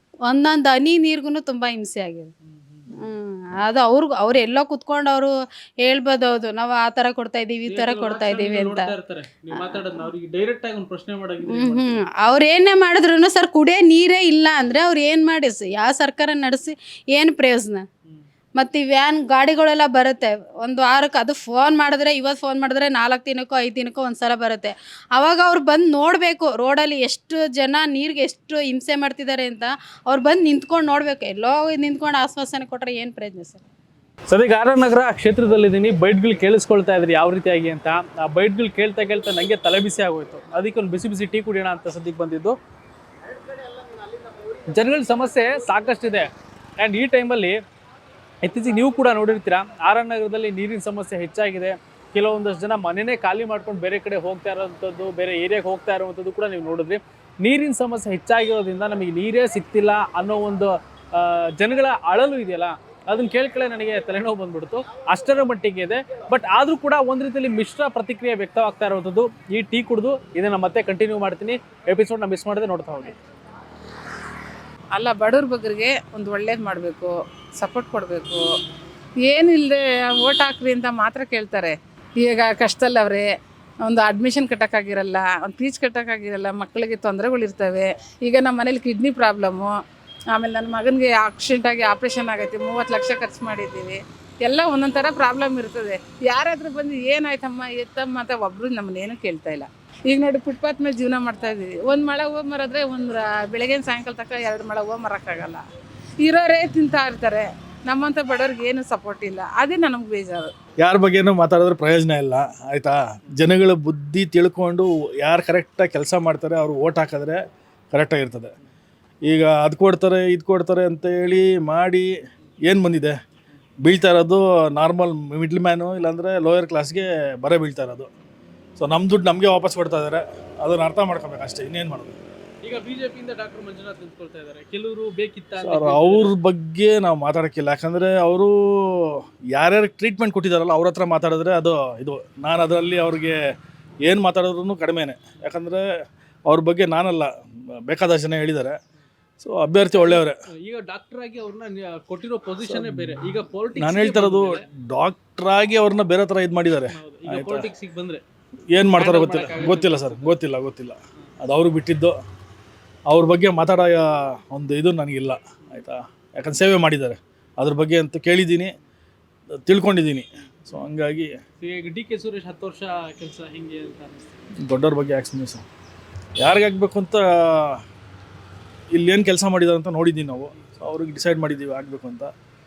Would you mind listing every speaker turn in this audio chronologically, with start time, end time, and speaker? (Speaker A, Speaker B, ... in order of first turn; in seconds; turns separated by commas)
Speaker A: 0.3-2.3, Speaker B: 2.5-3.0, Speaker A: 3.0-5.3, Speaker A: 5.8-8.9, Speaker B: 7.7-12.0, Speaker A: 11.5-17.9, Speaker A: 18.6-33.6, Speaker B: 34.3-42.6, Speaker B: 44.7-47.6, Speaker B: 48.4-73.2, Speaker C: 74.9-78.5, Speaker C: 79.2-83.3, Speaker C: 83.8-89.8, Speaker C: 90.3-105.6, Speaker C: 106.2-110.5, Speaker D: 110.8-117.4, Speaker D: 117.9-118.5, Speaker D: 119.3-122.1, Speaker D: 122.7-123.2, Speaker D: 123.8-128.1, Speaker D: 128.8-132.2, Speaker B: 132.6-136.3, Speaker D: 135.6-143.4, Speaker D: 144.1-145.9, Speaker D: 146.5-147.3, Speaker D: 147.9-148.8, Speaker D: 149.4-150.3, Speaker B: 149.9-154.6, Speaker D: 153.8-157.7, Speaker B: 156.9-158.2, Speaker D: 158.7-162.2, Speaker B: 158.9-160.4, Speaker D: 163.1-168.7, Speaker D: 169.7-171.4, Speaker B: 171.6-174.3, Speaker D: 174.7-175.6, Speaker D: 176.4-177.8, Speaker D: 178.9-182.3